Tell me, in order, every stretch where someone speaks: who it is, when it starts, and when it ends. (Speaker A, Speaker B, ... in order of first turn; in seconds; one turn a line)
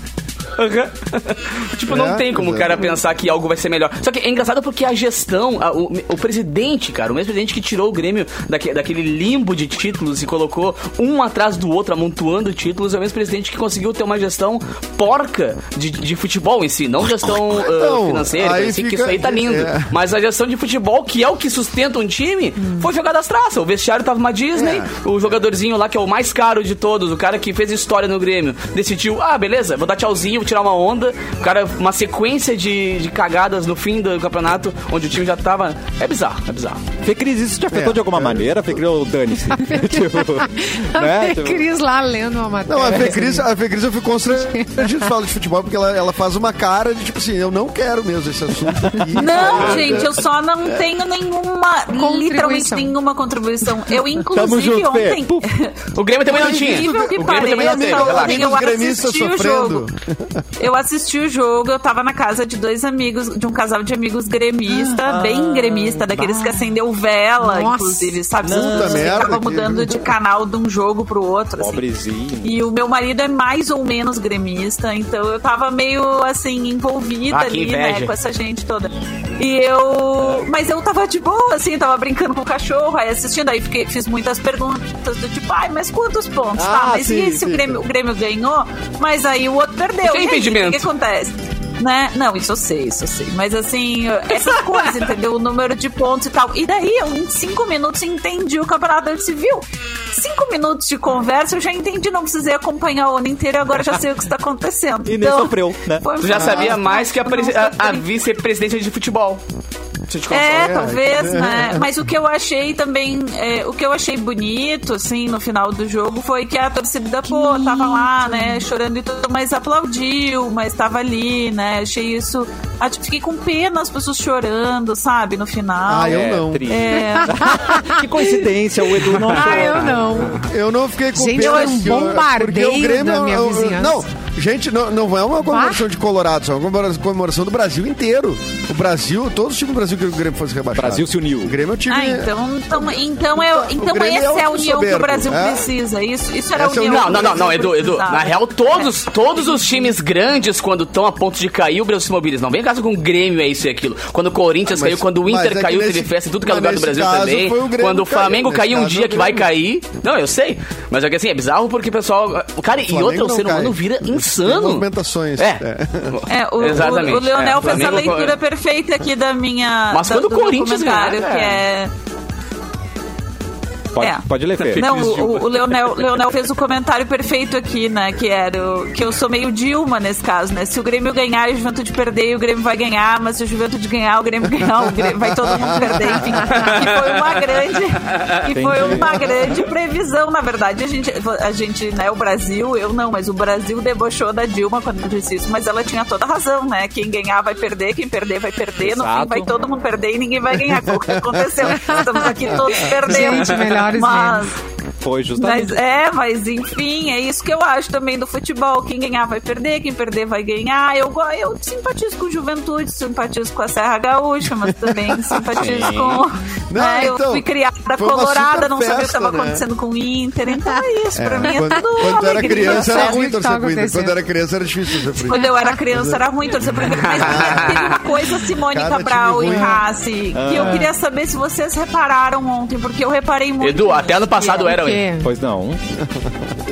Speaker A: 0.6-36.8
Speaker B: 1.9-2.9
Speaker B: 17.5-19.9
Speaker B: 24.6-24.9
Speaker C: 37.0-41.7
Speaker B: 37.7-38.8
Speaker D: 39.5-43.5
Speaker B: 42.7-50.2
Speaker D: 44.5-45.0
Speaker C: 48.8-50.1
Speaker E: 49.1-55.7
Speaker D: 51.9-52.9
Speaker C: 54.3-55.5
Speaker A: 55.9-58.6
Speaker B: 56.3-60.4
Speaker E: 56.3-59.8
Speaker E: 60.6-71.8
Speaker C: 64.8-66.0
Speaker D: 66.1-66.7
Speaker D: 67.4-68.2
Speaker C: 68.4-69.4
Speaker B: 68.4-70.1
Speaker C: 71.6-72.6
Speaker E: 72.4-108.0
Speaker A: 77.3-78.1
Speaker B: 86.6-87.7
Speaker A: 90.0-90.8
Speaker C: 105.0-106.0
Speaker A: 106.2-109.4
Speaker B: 106.3-106.8
Speaker A: 110.1-110.8
Speaker E: 110.3-127.8
Speaker B: 110.5-111.9
Speaker D: 117.3-118.6
Speaker B: 125.9-126.7
Speaker C: 126.0-130.3
Speaker D: 126.9-128.2
Speaker A: 129.0-129.7
Speaker D: 129.1-130.5
Speaker B: 130.4-142.3
Speaker D: 131.1-134.0
Speaker E: 131.3-132.0
Speaker D: 135.4-135.8
Speaker C: 140.7-141.5
Speaker E: 141.9-148.9
Speaker B: 142.8-145.7
Speaker B: 146.6-147.7
Speaker A: 146.6-168.3
Speaker B: 154.7-159.5
Speaker B: 162.9-166.2
Speaker E: 166.3-171.9
Speaker A: 169.9-171.6
Speaker C: 173.9-175.2
Speaker E: 174.0-204.5
Speaker A: 174.6-175.7
Speaker B: 185.4-186.4
Speaker A: 186.6-187.3
Speaker C: 188.5-189.5
Speaker B: 188.9-189.2
Speaker C: 198.8-199.5
Speaker B: 201.1-202.9
Speaker D: 201.9-204.5
Speaker C: 205.0-205.8
Speaker E: 205.3-223.2
Speaker A: 215.5-216.2
Speaker B: 216.7-217.4
Speaker B: 218.0-219.6
Speaker D: 220.6-220.8
Speaker B: 221.2-226.2
Speaker D: 221.5-224.2
Speaker D: 225.2-225.8
Speaker E: 225.3-234.8
Speaker A: 226.8-228.0
Speaker B: 227.1-227.9
Speaker B: 228.7-229.8
Speaker C: 230.3-230.9
Speaker D: 230.5-230.9
Speaker A: 233.6-235.0
Speaker D: 234.7-235.3
Speaker C: 235.2-235.8